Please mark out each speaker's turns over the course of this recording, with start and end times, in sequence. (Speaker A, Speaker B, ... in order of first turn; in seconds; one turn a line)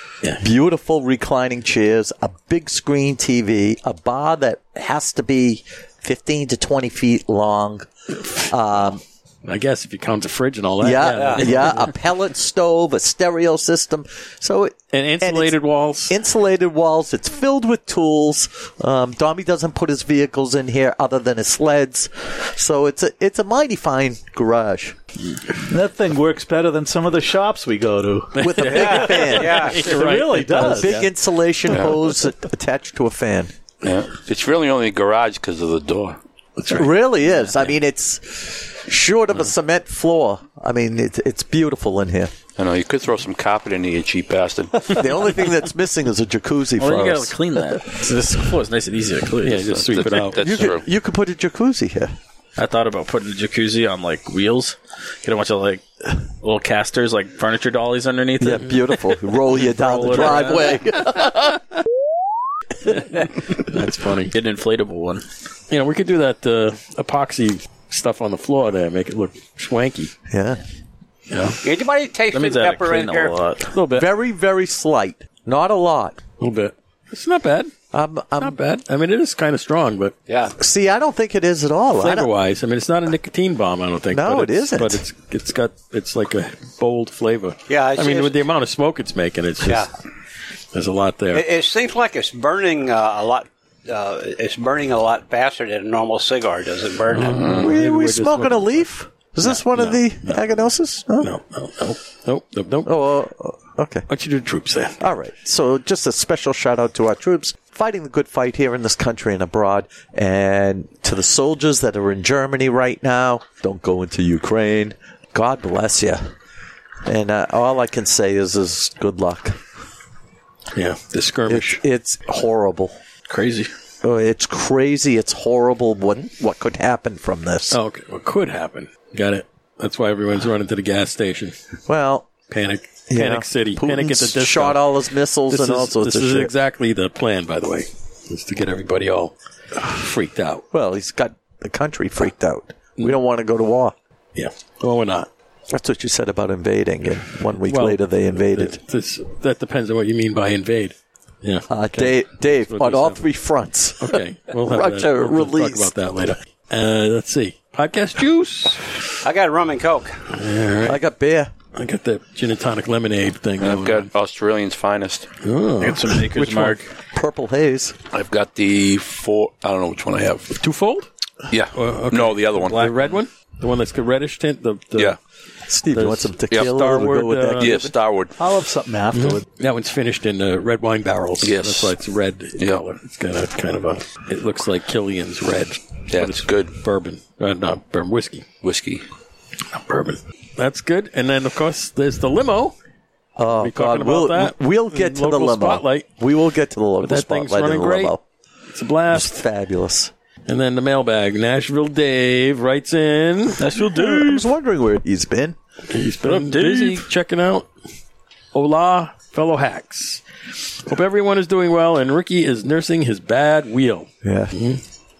Speaker A: 0.4-9.0
Speaker B: 9.4-11.8
Speaker A: 10.8-15.6
Speaker C: 11.1-11.7
Speaker B: 14.9-16.1
Speaker A: 16.1-25.0
Speaker D: 25.7-28.6
Speaker B: 28.4-31.1
Speaker A: 28.4-29.8
Speaker C: 28.7-30.0
Speaker D: 29.8-31.0
Speaker A: 30.4-33.5
Speaker E: 31.7-31.9
Speaker E: 33.8-36.2
Speaker B: 36.6-36.9
Speaker A: 36.7-42.3
Speaker E: 42.6-45.3
Speaker A: 44.9-47.7
Speaker F: 46.8-50.1
Speaker B: 49.4-50.4
Speaker E: 49.9-50.8
Speaker A: 50.4-52.1
Speaker F: 52.5-58.9
Speaker A: 58.4-61.6
Speaker F: 59.6-60.8
Speaker B: 63.6-64.3
Speaker F: 64.2-65.2
Speaker B: 65.7-70.1
Speaker A: 70.3-70.6
Speaker B: 71.3-71.6
Speaker C: 71.6-73.4
Speaker F: 72.3-73.7
Speaker B: 73.7-74.1
Speaker A: 73.9-76.2
Speaker B: 76.4-77.7
Speaker A: 77.9-78.6
Speaker B: 78.4-80.1
Speaker A: 80.6-82.3
Speaker B: 82.0-89.9
Speaker A: 84.1-85.0
Speaker C: 87.7-88.4
Speaker C: 89.6-89.9
Speaker B: 90.7-91.4
Speaker C: 91.3-97.6
Speaker B: 97.1-98.8
Speaker E: 97.4-97.7
Speaker A: 97.5-101.3
Speaker B: 99.4-100.4
Speaker B: 101.2-102.9
Speaker A: 102.8-104.0
Speaker B: 104.1-105.0
Speaker A: 105.0-116.2
Speaker A: 117.0-119.6
Speaker B: 120.7-121.8
Speaker A: 121.5-123.0
Speaker F: 123.3-123.7
Speaker A: 124.0-127.8
Speaker B: 127.7-131.5
Speaker A: 131.9-132.3
Speaker B: 132.5-134.9
Speaker A: 133.1-136.5
Speaker B: 135.5-140.6
Speaker A: 140.7-143.9
Speaker B: 144.3-145.3
Speaker A: 145.7-148.8
Speaker B: 147.6-153.2
Speaker A: 151.7-155.9
Speaker B: 154.0-158.9
Speaker C: 159.2-160.2
Speaker B: 160.3-161.0
Speaker A: 160.8-161.5
Speaker B: 161.7-164.1
Speaker E: 163.6-165.3
Speaker B: 165.4-166.8
Speaker F: 165.8-166.9
Speaker A: 167.1-167.9
Speaker E: 168.1-170.5
Speaker B: 170.6-171.1
Speaker E: 171.5-173.1
Speaker B: 171.7-175.2
Speaker A: 175.7-177.9
Speaker B: 175.9-177.7
Speaker E: 177.6-178.3
Speaker D: 178.4-179.4
Speaker B: 179.1-188.4
Speaker E: 181.4-181.9
Speaker E: 186.1-186.7
Speaker E: 188.6-189.0
Speaker B: 189.7-192.7
Speaker A: 193.4-198.2
Speaker B: 193.6-196.1
Speaker B: 197.0-198.2
Speaker B: 198.7-199.4
Speaker A: 199.1-200.1
Speaker B: 200.5-203.6
Speaker F: 203.6-204.4
Speaker A: 203.7-205.6
Speaker B: 205.9-207.7
Speaker F: 206.2-207.1
Speaker B: 208.5-210.2
Speaker B: 210.8-214.8
Speaker A: 214.2-214.5